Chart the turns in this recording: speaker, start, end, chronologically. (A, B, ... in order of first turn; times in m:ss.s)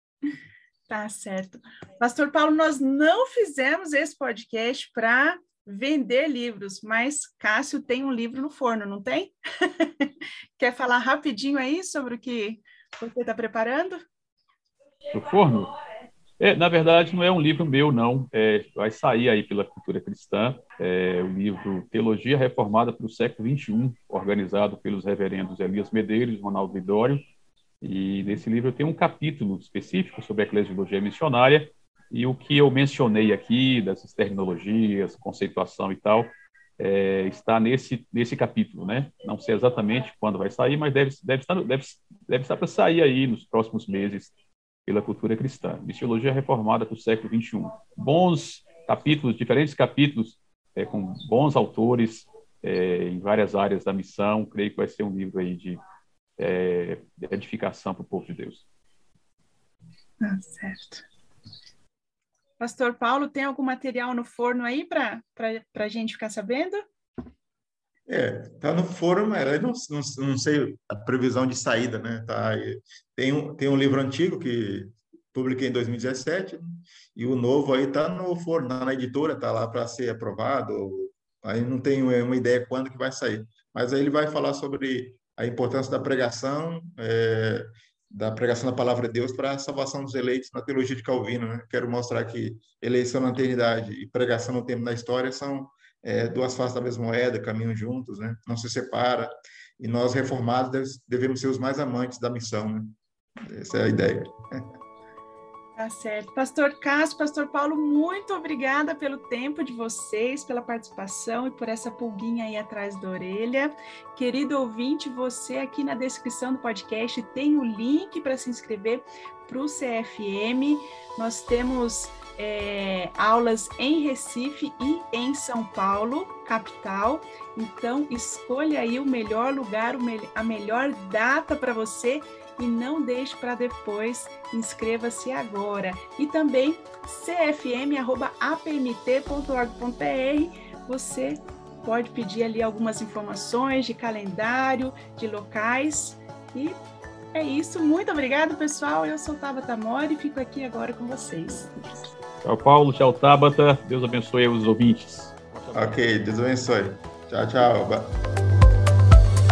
0:00.9-0:14.0 A
0:15.1-0:15.7 B
0:16.4-0:27.2 B
0:27.8-0:44.3 B
0:44.9-0:55.8 B
0:56.4-0:58.7 B
1:00.2-1:01.0 A
1:02.6-1:06.8 A
1:08.1-1:44.6 C
1:45.8-2:26.8 A
2:27.3-2:31.7 A
2:32.4-2:36.0 B
2:35.7-2:38.2 C